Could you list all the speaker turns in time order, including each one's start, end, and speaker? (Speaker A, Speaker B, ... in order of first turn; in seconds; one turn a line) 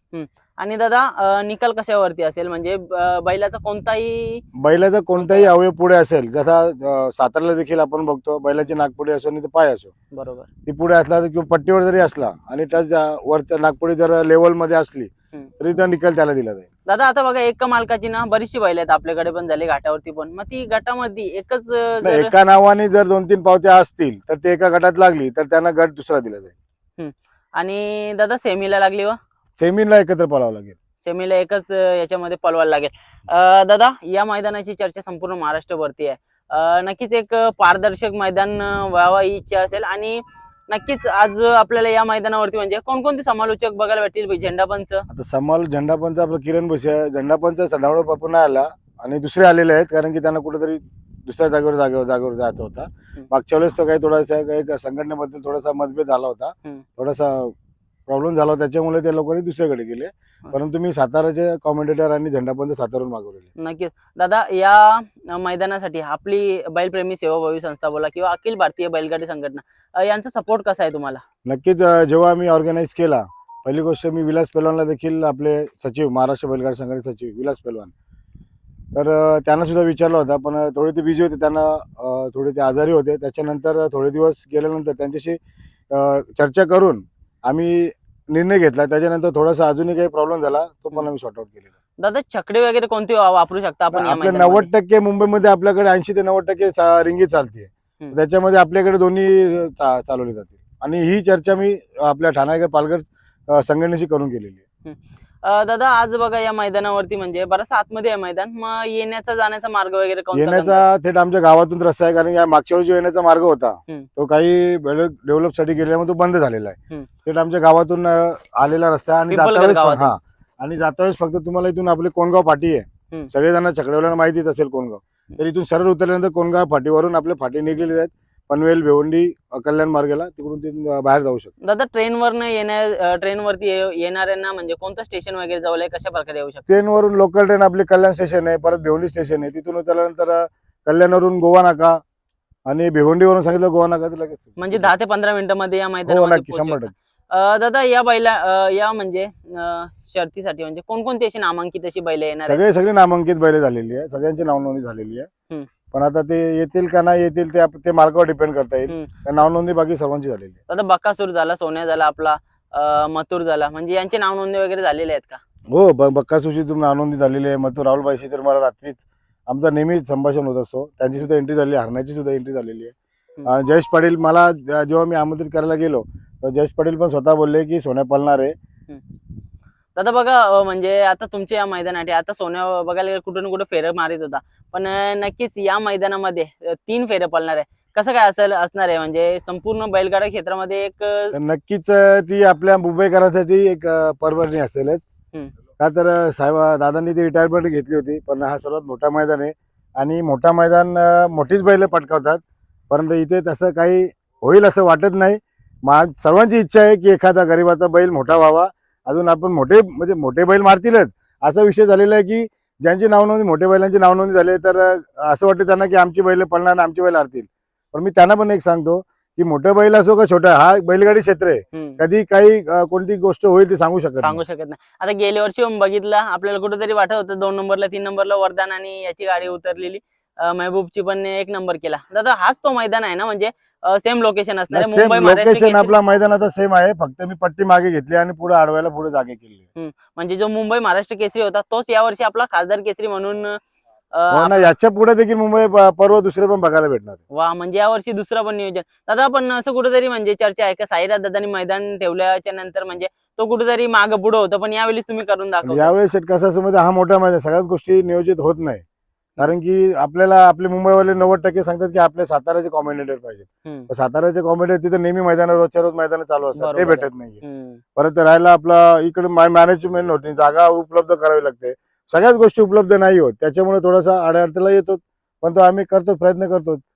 Speaker A: 0.1-4.4
Speaker B: 4.6-9.9
Speaker A: 5.2-5.5
Speaker A: 10.1-10.5
Speaker B: 10.7-15.1
Speaker B: 15.6-16.6
Speaker A: 16.9-22.3
Speaker B: 22.0-26.5
Speaker A: 27.0-29.2
Speaker B: 29.6-30.8
Speaker A: 31.0-45.1
Speaker B: 45.1-57.5
Speaker B: 58.1-63.5
Speaker A: 63.6-71.2
Speaker B: 71.5-77.9
Speaker B: 78.9-85.4
Speaker B: 85.9-91.7
Speaker A: 92.0-94.7
Speaker B: 93.9-104.6
Speaker A: 104.8-110.9
Speaker B: 110.3-131.5
Speaker A: 119.3-120.2
Speaker A: 131.6-136.6
Speaker B: 136.7-142.0
Speaker B: 142.7-144.9
Speaker A: 144.6-152.6
Speaker B: 146.1-146.9
Speaker B: 152.5-155.3
Speaker B: 155.9-160.6
Speaker A: 160.7-165.4
Speaker B: 165.7-172.9
Speaker B: 173.5-178.5
Speaker A: 179.9-191.3
Speaker B: 191.3-195.1
Speaker B: 195.8-224.4
Speaker A: 221.7-222.0
Speaker A: 224.2-235.9
Speaker B: 234.7-239.6
Speaker A: 239.8-243.6
Speaker A: 244.1-244.7
Speaker B: 244.3-247.2
Speaker A: 247.3-255.9
Speaker B: 255.7-258.8
Speaker B: 259.4-267.4
Speaker A: 266.6-267.8
Speaker B: 268.0-276.8